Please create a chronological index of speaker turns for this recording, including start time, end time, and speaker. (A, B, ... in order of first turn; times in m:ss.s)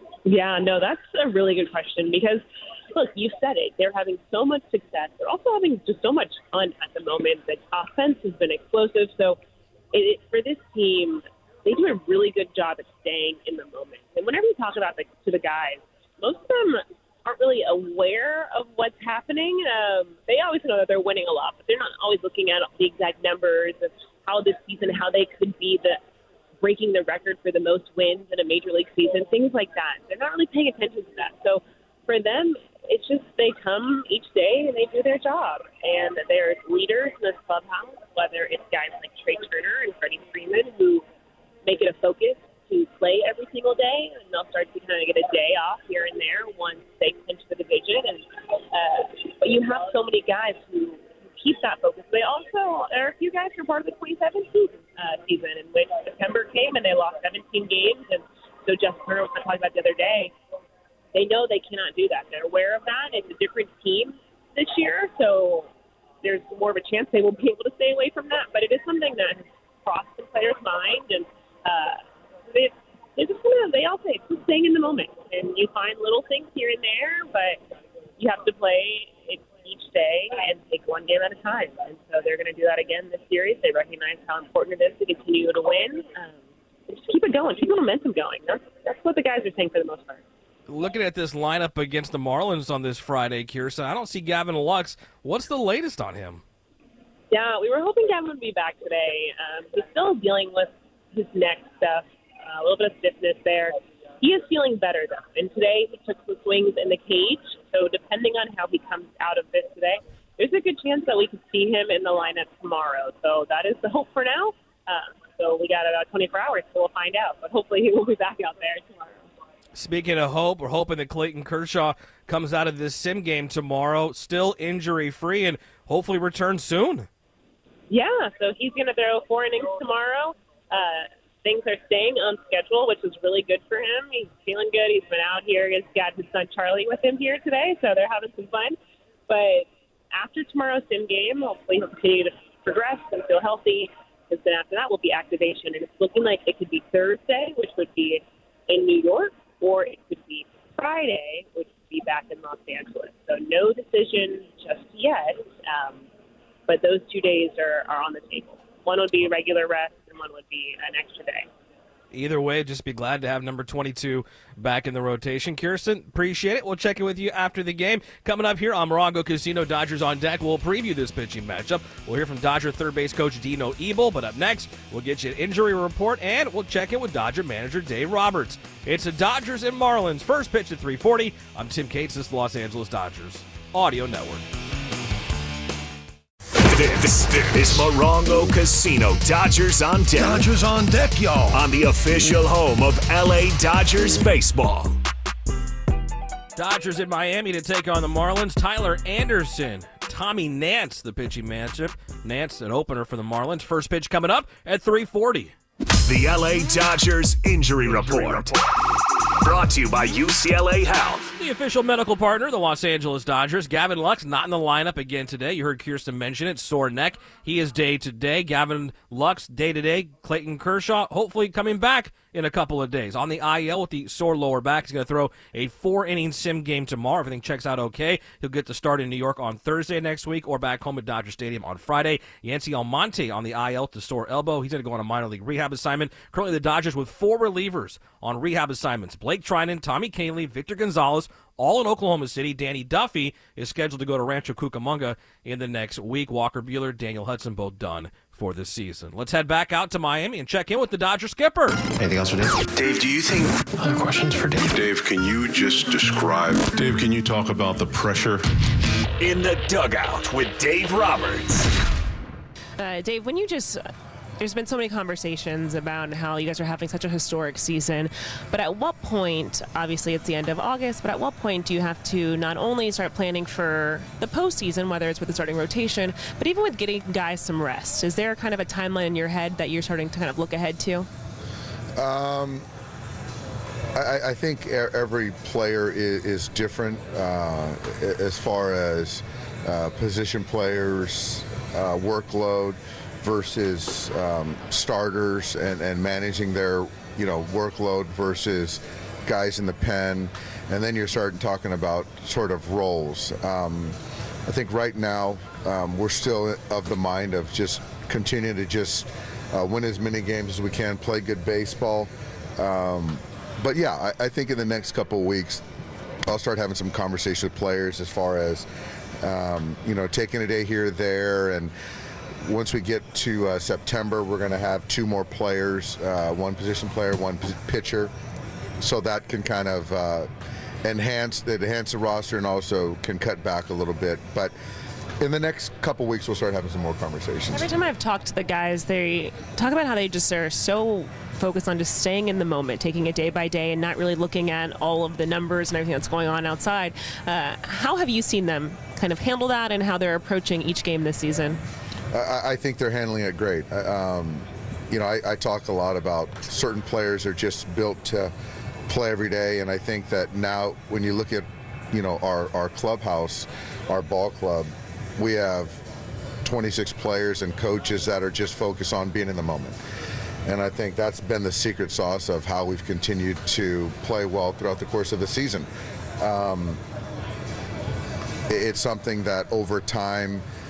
0:00.2-0:09.4 A
0:09.9-0:26.0 A
0:26.6-0:41.0 A
0:41.6-1:00.3 A
1:01.1-1:05.7 A
1:06.2-1:17.6 A
1:18.2-1:30.2 A
1:30.7-1:36.4 B
1:37.3-1:59.3 A
1:59.8-2:07.1 B
2:07.9-2:36.0 A
2:36.7-2:41.5 A
2:42.1-3:04.4 B
3:06.7-3:10.5 C
3:10.4-3:10.7 D
3:11.5-3:15.0 C
3:16.6-3:25.5 B
3:26.0-3:28.6 C
3:29.4-3:31.3 C
3:31.4-4:11.8 B
4:12.0-4:14.8 E
4:12.8-4:13.2 F
4:14.7-4:16.7 F
4:16.7-4:18.4 D
4:19.2-4:21.7 C
4:22.8-4:23.8 G
4:24.4-4:41.1 G
4:42.0-4:42.7 H
4:44.0-5:15.6 H
5:16.3-5:18.7 H
5:19.2-5:21.7 H
5:22.4-5:28.1 H
5:28.8-5:30.3 H
5:30.8-5:34.5 H
5:35.2-5:37.8 H
5:37.5-5:51.6 G
5:52.1-5:58.3 H
5:58.9-6:05.8 H
6:06.4-6:09.8 H
6:10.4-6:15.7 H
6:16.2-6:16.8 H
6:18.5-6:20.4 H